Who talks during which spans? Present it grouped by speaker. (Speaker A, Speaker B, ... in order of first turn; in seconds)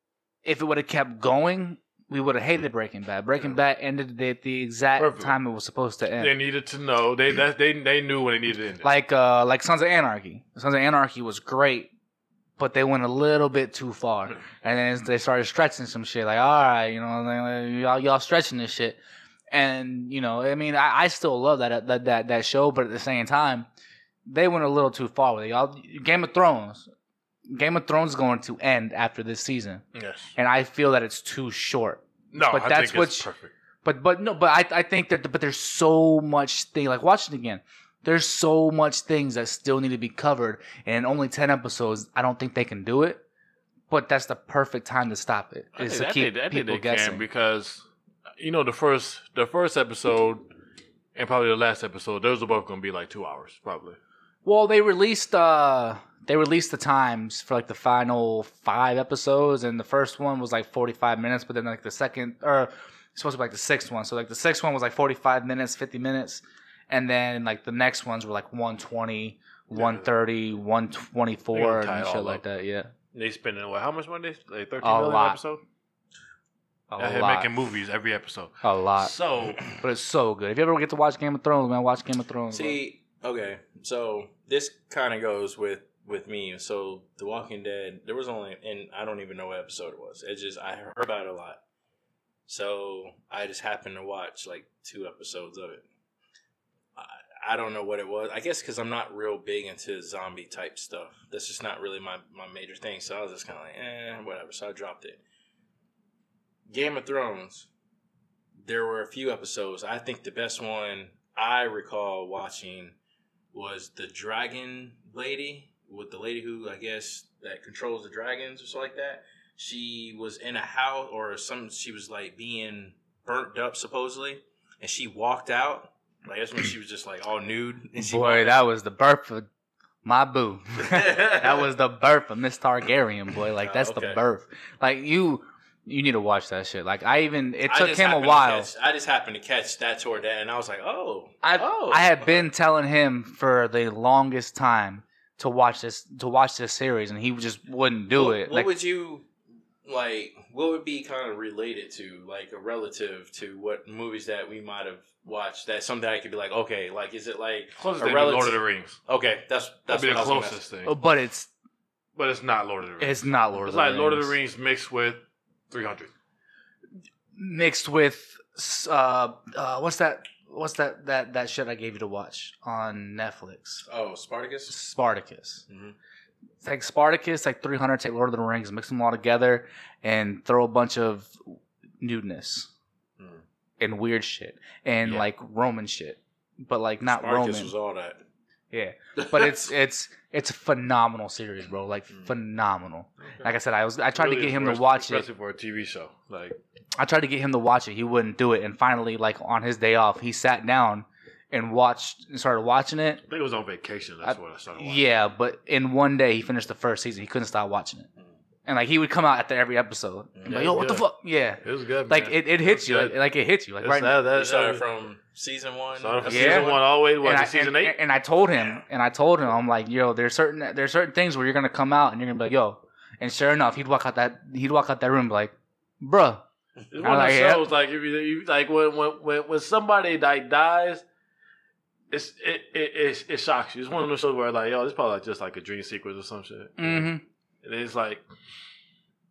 Speaker A: 0.4-6.3, 8.8-11.9, 12.6-19.0, 19.5-23.7, 24.3-26.9, 27.5-29.8, 30.4-33.3, 33.8-43.2, 43.9-47.2, 54.5-72.9, 74.8-75.4, 76.9-77.5, 78.6-82.8, 128.0-129.5, 130.0-138.7, 141.4-148.7, 160.8-161.5, 163.0-164.3, 167.3-173.8, 174.7-175.6, 176.6-182.7, 183.8-187.7, 188.7-195.3, 197.0-203.2, 204.2-208.1, 208.7-214.2, 216.3-226.4, 227.0-227.7, 236.8-237.2
Speaker B: 5.0-5.4, 6.2-8.9, 29.9-30.3, 32.3-33.5, 45.8-47.9, 48.4-50.5, 51.1-54.0, 69.8-70.1, 71.5-72.4, 73.1-75.6, 77.0-79.6, 157.8-159.0, 159.9-160.9, 162.2-166.1, 194.1-196.6, 203.3-205.0, 210.5-211.1, 211.6-213.2, 213.8-214.8, 216.0-218.0, 226.9-231.0, 232.1-237.1, 237.6-238.2
Speaker C: 82.5-91.6, 92.5-95.8, 97.0-105.2, 106.7-107.7, 108.6-113.0, 113.5-128.6, 130.8-131.6, 133.6-134.2, 137.6-142.5, 148.1-149.3, 149.8-160.6, 173.9-174.8, 175.7-176.0, 183.2-183.4, 187.0-188.2, 189.2-189.7, 210.4-210.6, 214.3-216.8, 218.6-218.8